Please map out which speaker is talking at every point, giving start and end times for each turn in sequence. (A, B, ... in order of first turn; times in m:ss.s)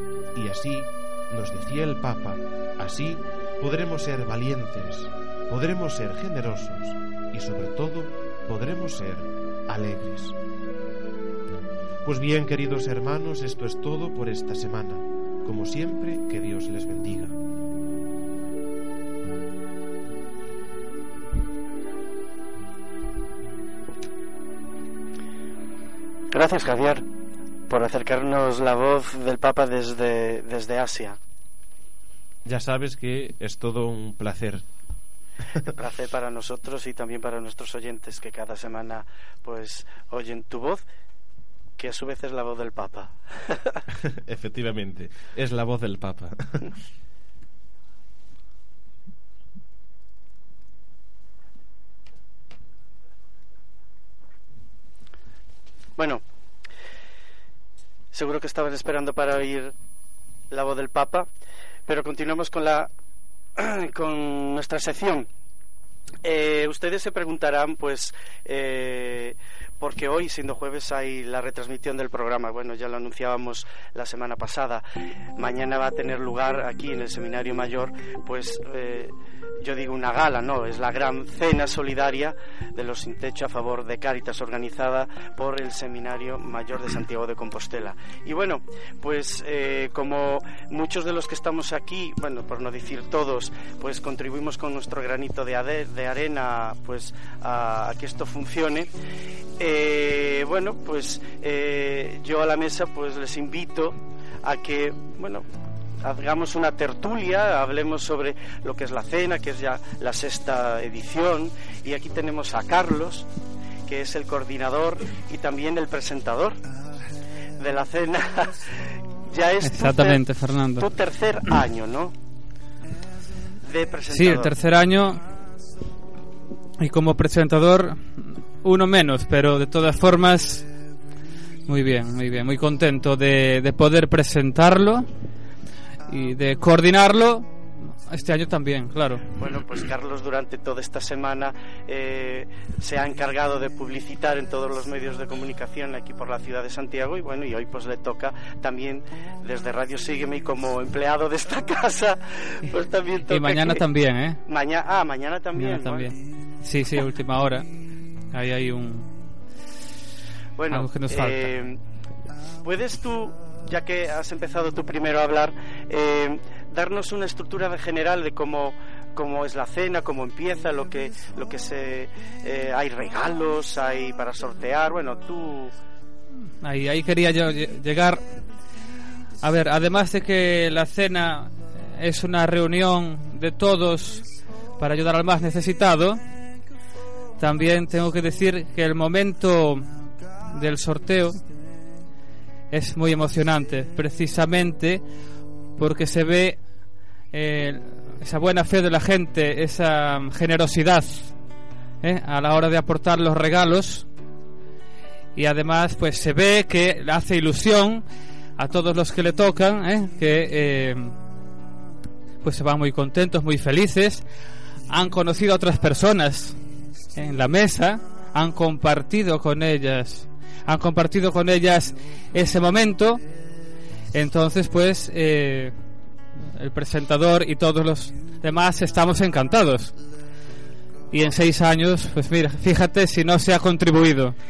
0:00.3-0:10.4 A
0:12.0-0:17.4 A
0:26.3-0:27.0 B
0:27.7-0:31.2 B
0:32.4-0:34.6 A
0:35.8-0:40.8 B
0:41.8-0:43.8 B
0:44.0-0:46.7 A
0:56.0-0:56.2 B
0:58.1-0:59.7 B
1:00.5-1:01.3 B
1:01.9-1:02.9 B
1:03.6-1:05.3 B
1:06.2-1:14.8 B
1:15.4-1:38.9 B
1:39.6-1:45.4 B
1:46.0-1:53.3 B
1:53.9-1:56.6 B
1:57.6-2:00.2 B
1:59.6-2:00.9 C
2:00.8-2:02.1 B
2:03.7-2:04.5 B
2:04.1-2:05.2 C
2:06.8-2:10.7 C
2:11.7-2:15.1 C
2:16.1-2:19.2 C
2:19.4-2:33.8 B
2:33.3-2:34.4 C
2:34.5-2:36.1 B
2:35.6-2:37.7 C
2:38.3-2:39.2 C
2:40.6-2:41.8 B
2:40.7-2:41.5 C
2:42.6-2:55.7 B
2:56.4-2:58.4 C
2:59.4-3:06.2 C
3:07.4-3:11.4 C
3:12.7-3:15.0 C
3:15.8-3:16.7 C
3:17.3-3:21.4 C
3:22.0-3:24.1 C
3:25.4-3:28.1 C
3:28.6-3:31.2 C
3:32.4-3:34.3 C
3:34.9-3:36.6 C
3:37.2-3:43.2 C
3:44.1-3:45.8 C
3:46.4-3:50.0 C
3:51.1-3:54.4 C